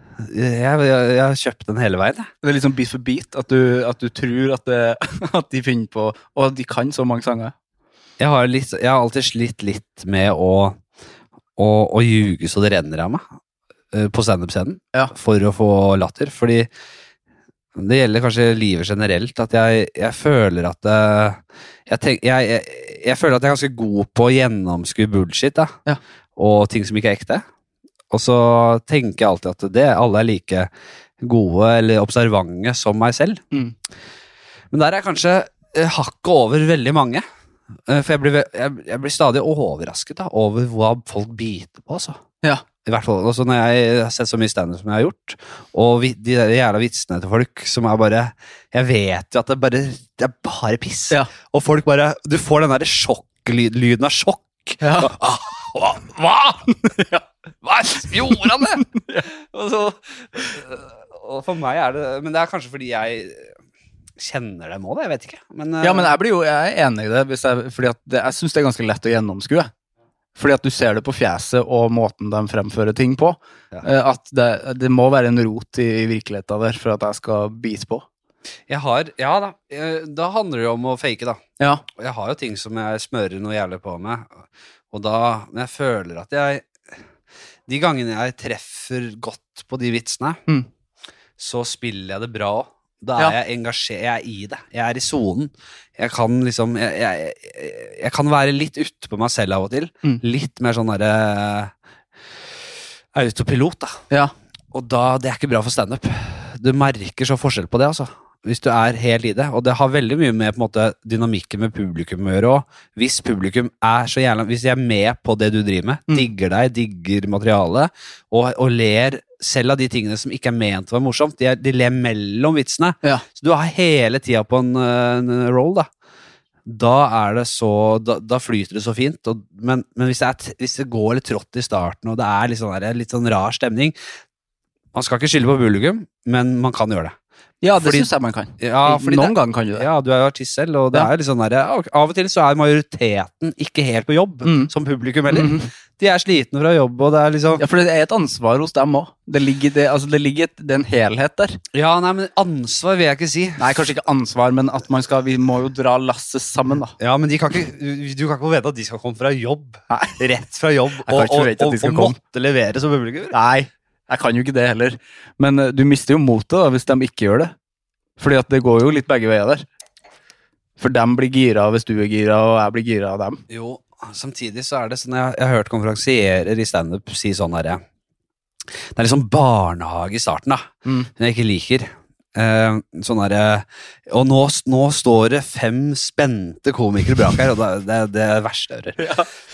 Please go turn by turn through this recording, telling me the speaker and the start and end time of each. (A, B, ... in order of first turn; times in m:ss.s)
0:00.2-0:02.3 A
0:02.4-0:07.5 B
0:08.2-0:10.8 A
0:11.6-0:13.2 A
0:13.9-0:16.7 A
0:17.7-0:25.8 A
0:26.4-0:27.4 A
0:28.1-0:30.7 A
0:31.2-0:33.4 A
0:34.7-0:37.2 A
0:37.9-0:42.2 A
0:42.8-0:56.7 A
0:54.8-0:55.1 B
0:56.7-0:57.2 B
0:57.6-1:03.5 A
0:58.2-0:59.3 B
1:04.2-1:06.1 A
1:05.8-1:09.7 B
1:10.4-1:18.0 B
1:18.7-1:21.4 A
1:21.6-1:21.8 B
1:21.9-1:24.3 A
1:24.9-1:26.7 A
1:27.7-1:30.4 A
1:31.4-1:41.7 A
1:43.1-1:44.0 A
1:44.7-2:05.9 A
2:06.6-2:13.9 A
2:14.9-2:17.2 A
2:17.6-2:19.8 B
2:17.8-2:27.6 A
2:24.4-2:24.7 B
2:25.3-2:25.7 B
2:27.6-2:31.6 B
2:31.7-2:33.9 A
2:33.6-2:36.9 B
2:37.0-2:43.3 A
2:39.9-2:40.2 B
2:41.0-2:42.2 B
2:43.3-2:47.5 B
2:48.2-2:49.6 B
2:50.8-2:53.4 B
2:53.5-2:57.8 A
2:58.9-3:09.1 A
3:00.8-3:01.1 B
3:09.0-3:09.3 B